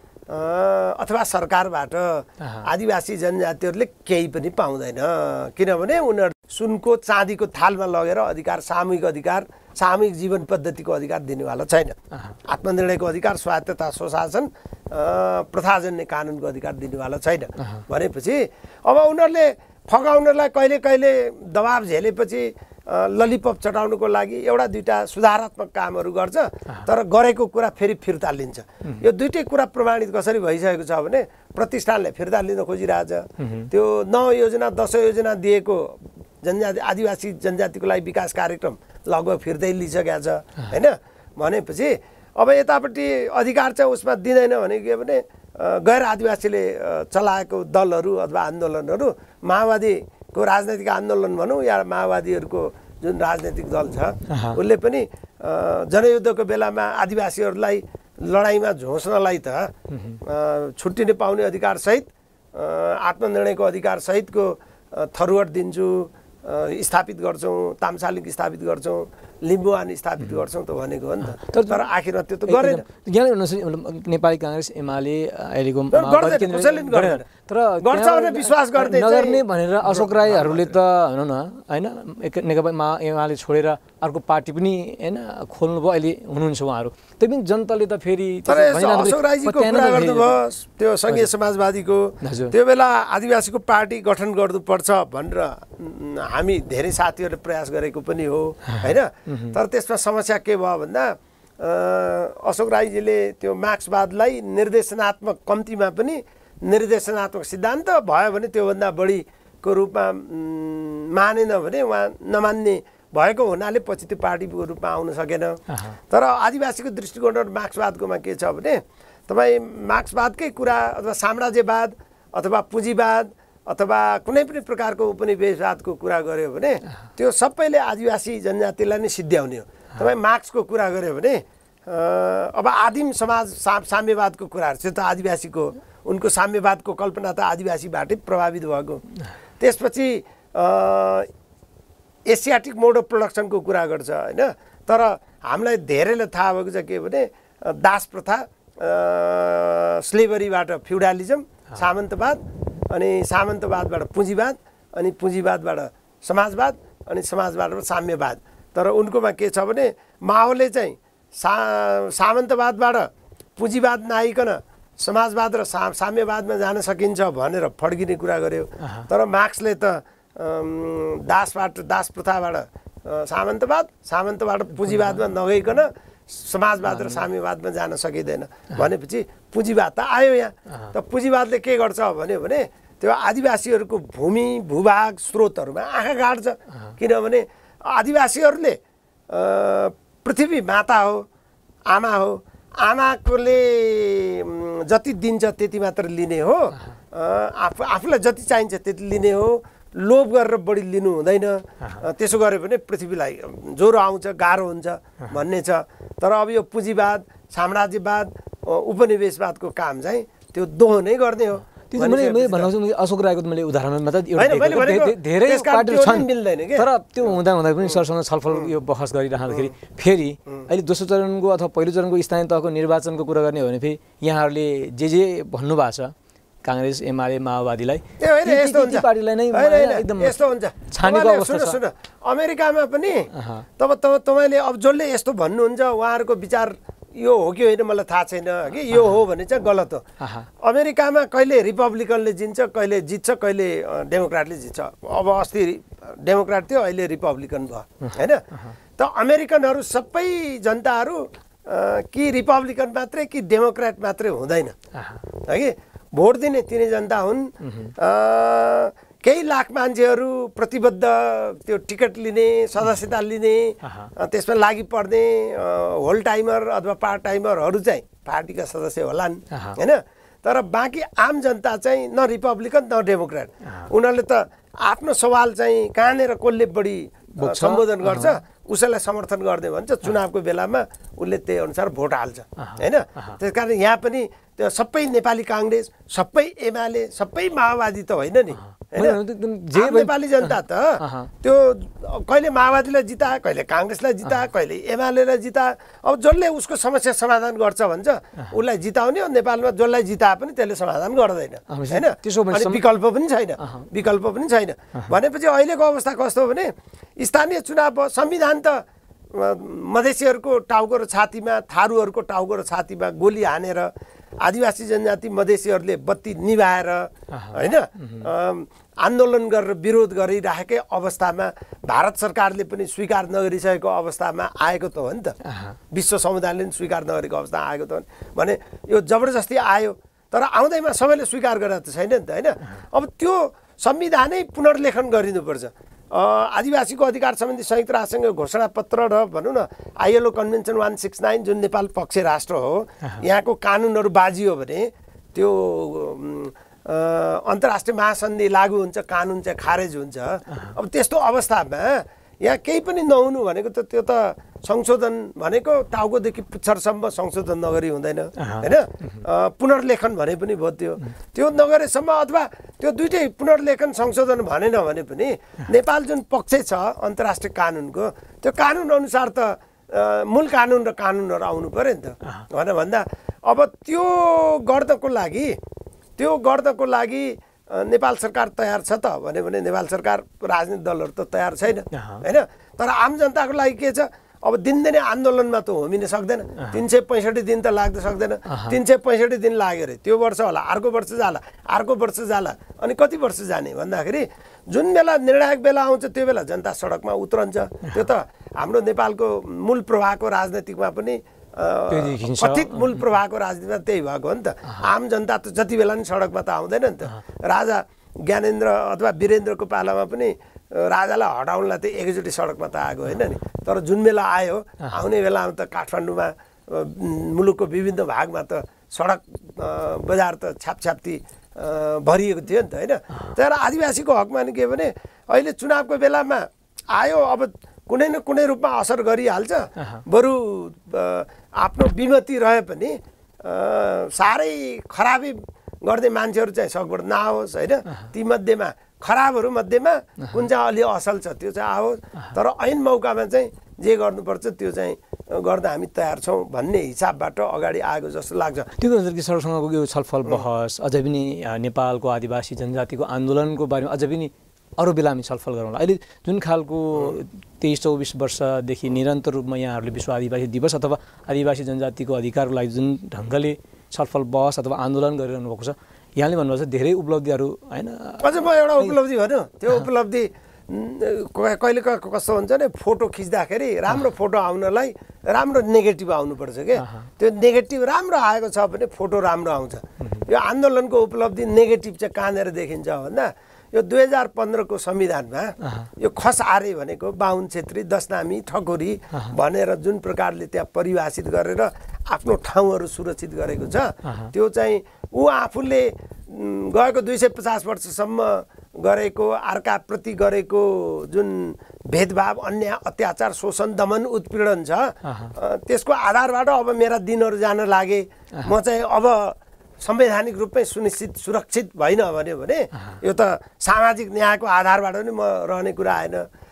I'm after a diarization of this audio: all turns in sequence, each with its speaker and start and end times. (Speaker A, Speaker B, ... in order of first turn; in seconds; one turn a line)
Speaker A: 0.3-59.7
Speaker B: 2.4-2.7
Speaker B: 33.4-33.7
Speaker B: 54.3-54.6
Speaker B: 59.9-60.2
Speaker A: 60.2-72.8
Speaker B: 71.3-71.8
Speaker B: 72.5-90.4
Speaker A: 75.9-77.2
Speaker A: 77.8-80.7
Speaker A: 88.5-139.0
Speaker B: 92.2-92.5
Speaker B: 98.7-99.5
Speaker A: 139.6-141.3
Speaker A: 142.3-188.8
Speaker B: 168.8-169.1
Speaker B: 176.9-177.2
Speaker A: 189.3-191.2
Speaker A: 191.9-212.7
Speaker B: 211.9-226.1
Speaker A: 214.3-216.9
Speaker B: 226.6-231.8
Speaker A: 228.2-240.0
Speaker B: 233.3-233.6
Speaker B: 240.2-240.5
Speaker A: 240.6-248.4
Speaker B: 248.0-248.7
Speaker A: 249.0-254.7
Speaker B: 254.9-255.2
Speaker A: 255.4-289.2
Speaker B: 257.6-257.9
Speaker B: 263.8-264.1
Speaker B: 269.5-269.8
Speaker B: 277.4-278.4
Speaker B: 282.6-283.4
Speaker B: 288.9-291.3
Speaker A: 289.7-325.4
Speaker B: 301.7-302.8
Speaker B: 303.6-303.9
Speaker B: 317.3-318.3
Speaker B: 325.4-325.8
Speaker A: 325.9-375.5
Speaker B: 358.4-358.7
Speaker A: 376.2-448.7
Speaker B: 381.9-382.2
Speaker B: 388.5-388.8
Speaker B: 401.9-403.0
Speaker B: 448.8-468.9
Speaker A: 468.2-516.2
Speaker B: 476.8-477.1
Speaker B: 485.6-485.9
Speaker B: 494.1-494.3
Speaker B: 505.0-505.3